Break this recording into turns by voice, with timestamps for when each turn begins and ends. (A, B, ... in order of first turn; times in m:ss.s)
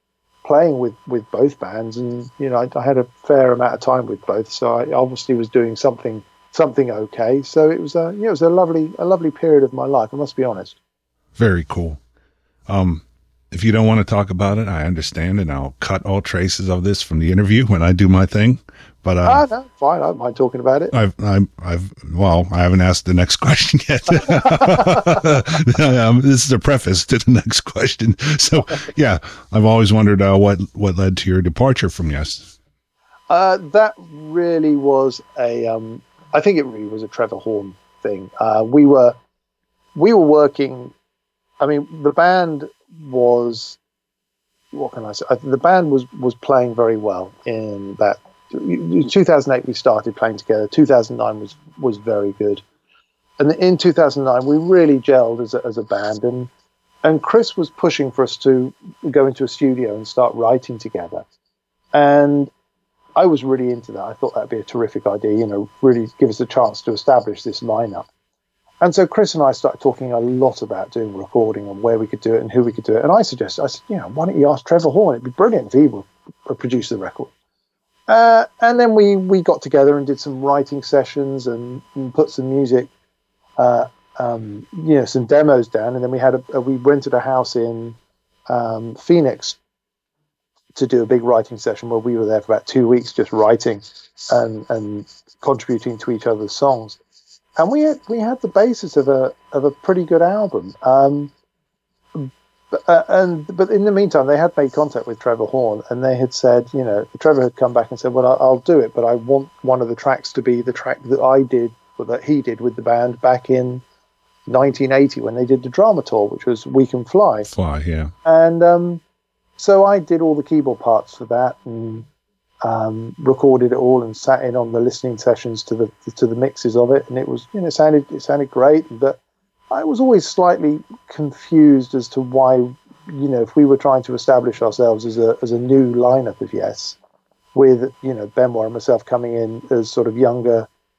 0:00.4-0:10.8 A
0:11.4-0:12.0 B
0:12.7-0:19.5 B
0:19.2-0:20.9 A
0:20.9-0:32.5 B
0:24.5-0:24.9 A
0:33.3-0:39.2 A
0:40.0-0:40.9 A
0:41.6-0:43.8 A
0:44.7-0:52.6 A
0:53.4-0:56.5 A
0:57.0-1:01.2 A
1:01.9-1:02.5 A
1:03.2-1:08.1 A
1:08.8-1:17.3 A
1:18.1-1:22.9 A
1:23.6-1:28.0 A
1:28.5-1:29.6 A
1:30.8-1:37.0 A
1:37.6-1:41.3 A
1:42.2-1:53.8 A
1:54.5-1:57.5 A
1:57.5-1:58.1 B
1:58.2-1:59.0 A
1:59.6-2:02.1 A
2:02.6-2:09.2 A
2:09.7-2:17.0 A
2:17.6-2:20.7 A